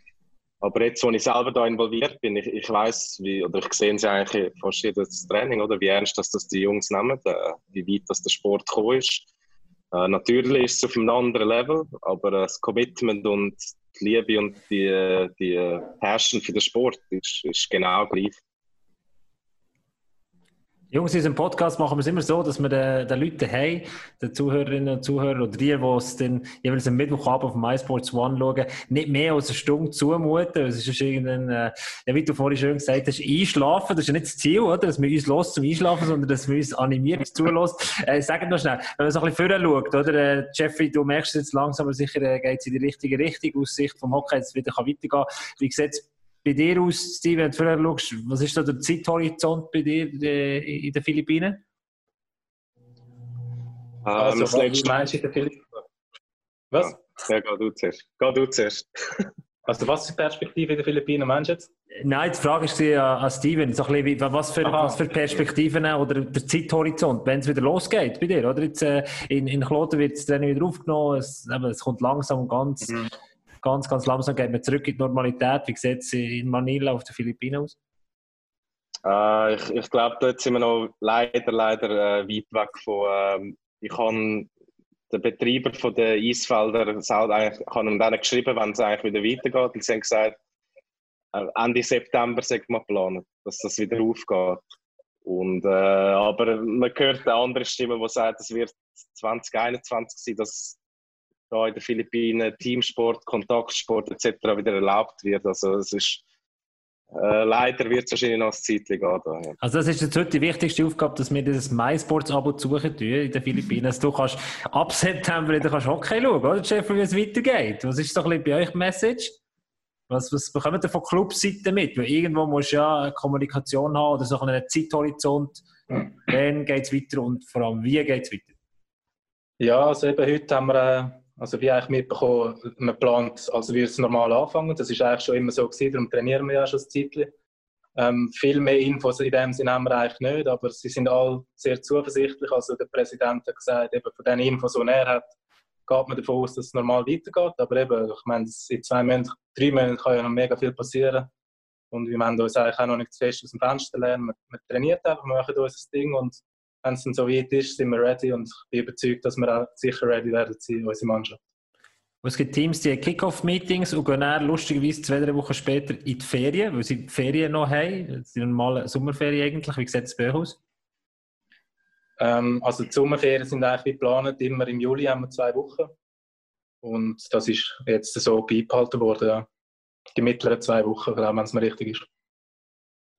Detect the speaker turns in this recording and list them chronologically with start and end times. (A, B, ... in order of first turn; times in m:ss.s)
0:00.6-0:09.2 A
0:09.9-0:18.4 A
0:20.9-0:51.6 B
0:54.0-0:55.0 A
0:54.2-0:55.6 C
0:56.7-0:57.0 C
0:56.8-0:59.3 A
0:59.7-1:01.7 C
1:02.0-1:12.9 B
1:04.6-1:05.0 C
1:12.8-1:13.1 C
1:13.6-1:17.8 B
1:19.0-1:24.5 A
1:25.1-1:30.4 A
1:31.3-1:34.6 A
1:35.2-1:40.8 A
1:41.5-1:46.2 A
1:47.1-1:49.6 A
1:49.6-1:59.4 B
2:00.1-2:08.5 B
2:09.6-2:17.3 C
2:18.0-2:25.3 C
2:25.9-2:31.3 C
2:31.9-2:41.4 C
2:42.2-2:50.6 B
2:52.2-2:55.9 C
2:56.8-2:59.5 C
3:00.2-3:02.1 C